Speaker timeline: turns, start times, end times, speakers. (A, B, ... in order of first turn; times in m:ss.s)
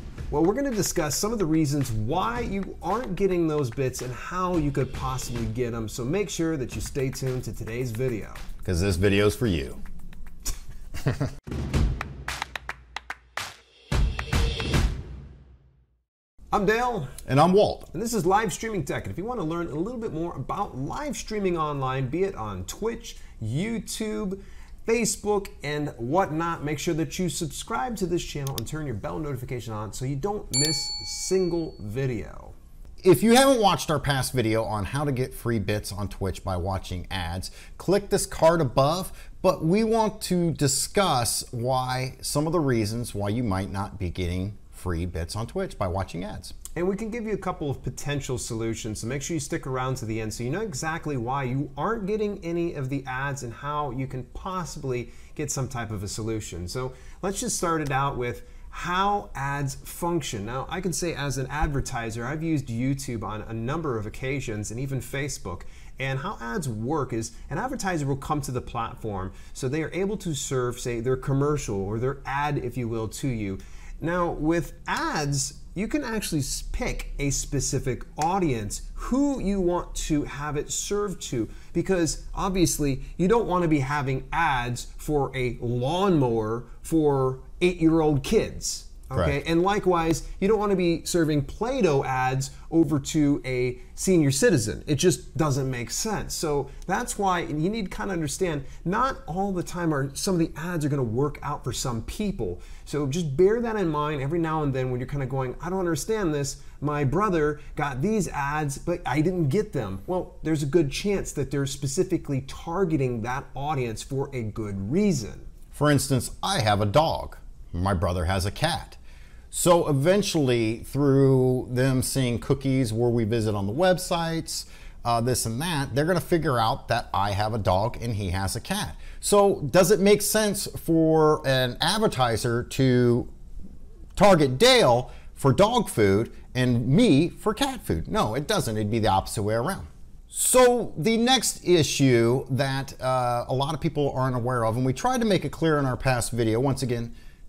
0:00.3-0:08.4 A
0:08.6-0:09.8 B
0:16.5-0:17.1 A
0:17.2-0:17.9 B
0:17.9-0:32.5 A
0:33.0-0:46.5 B
0:46.8-1:55.5 A
1:55.7-1:59.0 B
1:59.5-2:13.3 B
2:14.2-2:27.1 B